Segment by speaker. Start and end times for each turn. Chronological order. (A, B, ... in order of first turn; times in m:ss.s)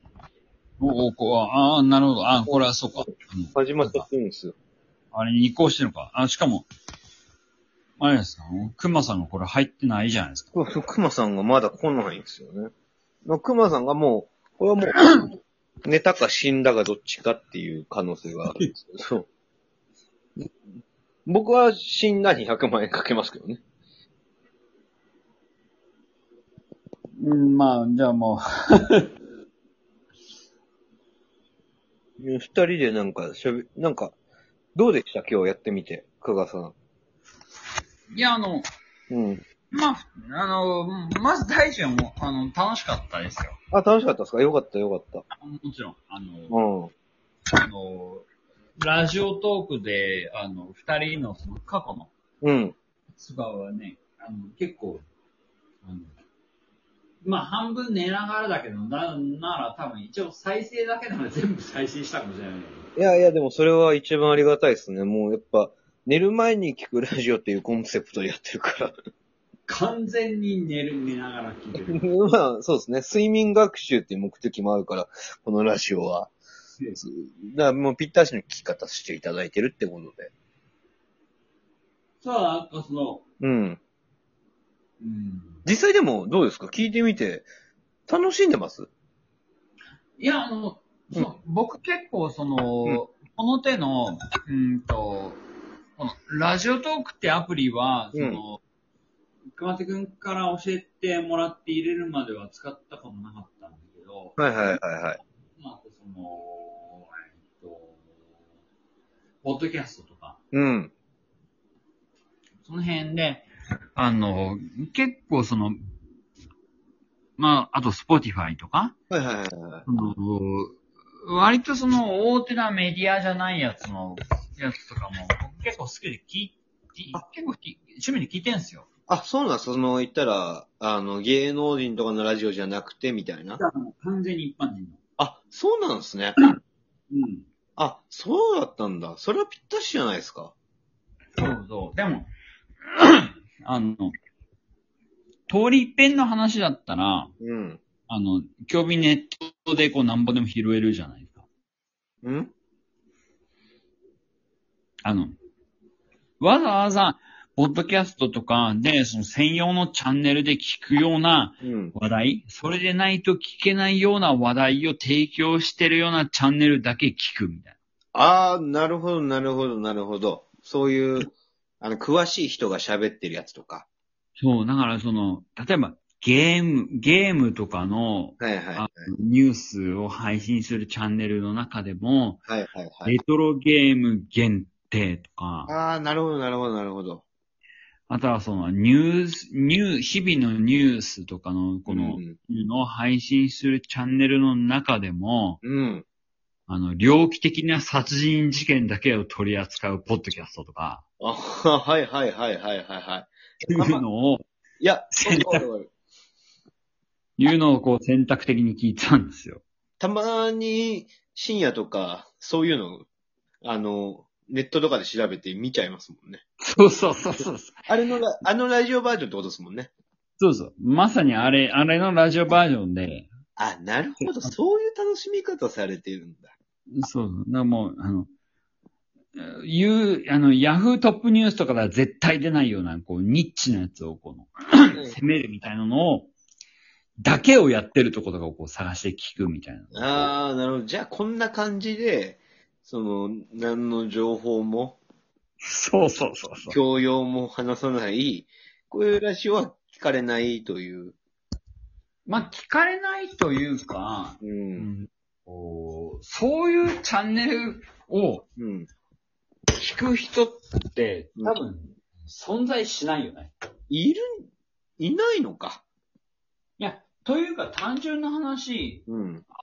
0:00.8-0:04.1 A
0:03.6-0:04.6 B
0:05.1-0:06.7 A
0:08.0-0:10.5 A
0:10.5-0:12.7 B
0:13.2-0:15.0 B
0:15.8-0:19.3 B
0:21.3-0:23.6 B
0:27.2-0:29.1 A
0:32.2-0:34.2 B
0:34.8-0:36.7 B
0:38.1-0:38.7 A
0:39.1-0:39.4 B
0:39.7-0:43.6 A
0:43.7-0:45.2 B
0:45.3-0:46.6 A
0:46.5-0:46.9 B
0:47.5-0:48.3 A
0:48.8-0:52.1 A
0:52.4-0:52.8 B
0:53.2-0:55.0 A
0:55.8-0:56.2 A
0:57.2-1:02.9 A
1:03.0-1:08.9 B
1:09.7-1:12.0 A
1:11.7-1:16.3 B
1:17.0-1:20.3 B
1:22.2-1:23.2 A
1:23.4-1:23.8 B
1:25.0-1:25.6 A
1:25.6-1:27.5 B
1:28.1-1:28.9 B
1:30.2-1:35.4 A
1:36.0-1:38.6 A
1:38.1-1:38.4 B
1:39.5-1:44.5 A
1:44.4-1:45.2 B
1:45.6-1:48.0 A
1:49.4-1:50.4 A
1:50.5-1:50.9 B
1:52.6-1:55.8 A
1:57.4-1:59.0 A
1:59.1-1:59.8 B
1:59.9-2:08.9 A
2:09.1-2:13.6 B
2:13.6-2:15.0 A
2:15.2-2:16.4 B
2:17.1-2:17.4 A
2:17.8-2:20.5 B
2:21.4-2:22.3 A
2:22.9-2:24.1 A
2:25.5-2:27.3 A
2:27.4-2:27.8 B
2:28.1-2:31.4 A
2:32.2-2:32.5 B
2:35.0-2:35.4 A
2:36.4-2:47.8 A
2:41.6-2:42.0 B
2:48.1-2:53.9 B
2:54.4-3:02.4 A
2:58.4-2:59.1 B
3:02.5-3:03.2 B
3:03.0-3:05.7 A
3:05.7-3:07.2 B
3:08.1-3:15.6 A
3:11.9-3:12.4 B
3:15.6-3:16.0 B
3:16.7-3:21.0 A
3:21.2-3:24.0 B
3:23.7-3:24.4 A
3:24.8-3:25.9 B
3:25.1-3:25.6 A
3:27.4-3:29.6 A
3:30.0-3:33.1 B
3:33.6-3:36.4 B
3:36.6-3:37.9 A
3:37.9-3:39.9 B
3:40.4-3:43.3 A
3:43.6-3:46.5 B
3:44.2-3:44.5 A
3:46.9-3:48.3 A
3:49.4-3:56.3 A
3:57.2-4:00.3 A
3:59.9-4:05.0 B
4:05.6-4:06.8 A
4:06.7-4:11.2 B
4:12.3-4:18.4 A
4:14.4-4:14.9 B
4:18.6-4:18.9 B
4:19.8-4:23.5 A
4:23.9-4:24.5 B
4:25.0-4:25.8 B
4:26.8-4:29.0 A
4:29.1-4:29.4 B